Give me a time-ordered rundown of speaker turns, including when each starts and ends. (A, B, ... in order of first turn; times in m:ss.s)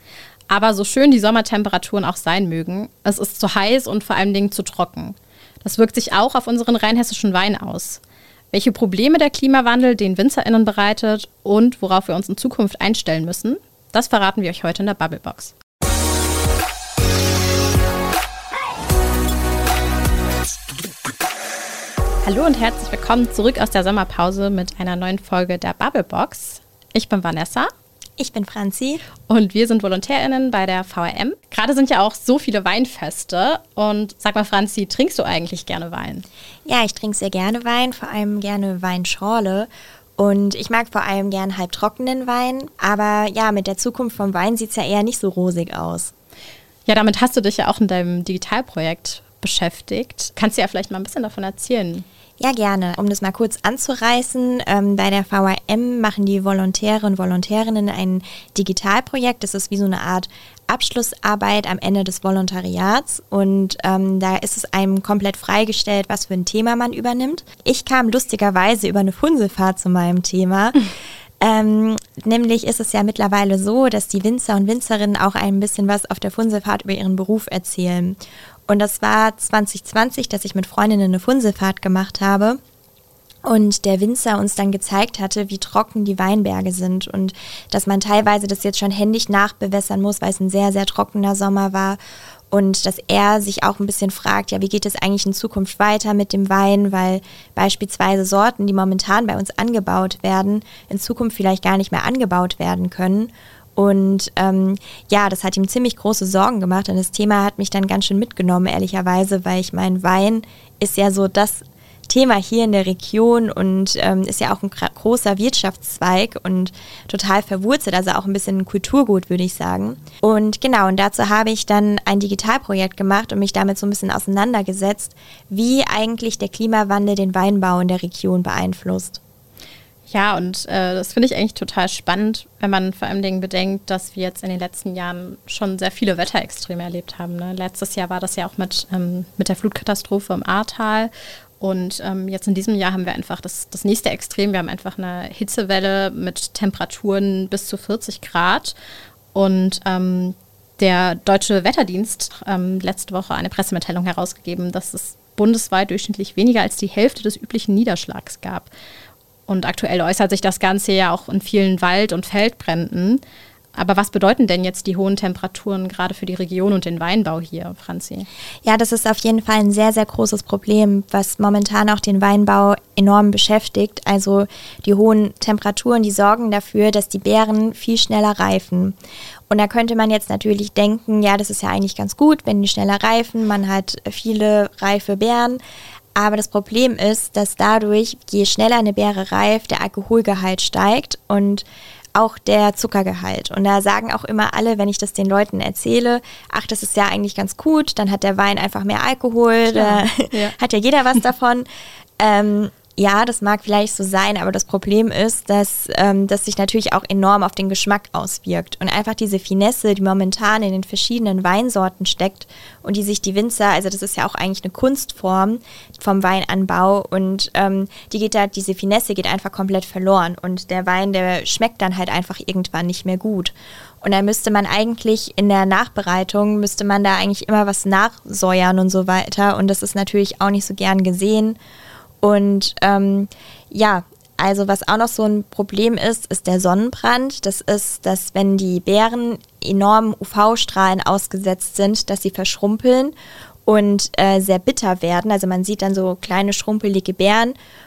0:00.5-0:15.5 A
0:22.2-0:27.7 A
0:28.2-0:29.0 B
0:29.3-0:36.2 A
0:36.7-0:46.1 B
0:46.9-0:52.0 A
0:52.4-1:10.9 B
1:11.4-1:22.6 B
1:23.4-1:32.0 B
1:32.5-2:09.2 B
2:10.1-2:28.8 A
2:29.3-2:38.7 A
2:39.5-2:43.2 A
2:43.8-2:48.3 A
2:48.6-2:59.0 B
2:59.5-3:05.6 B
3:06.2-3:11.6 B
3:12.2-3:21.7 B
3:19.7-3:20.6 A
3:22.2-3:51.6 B
3:52.2-4:03.2 B
4:03.7-4:07.6 B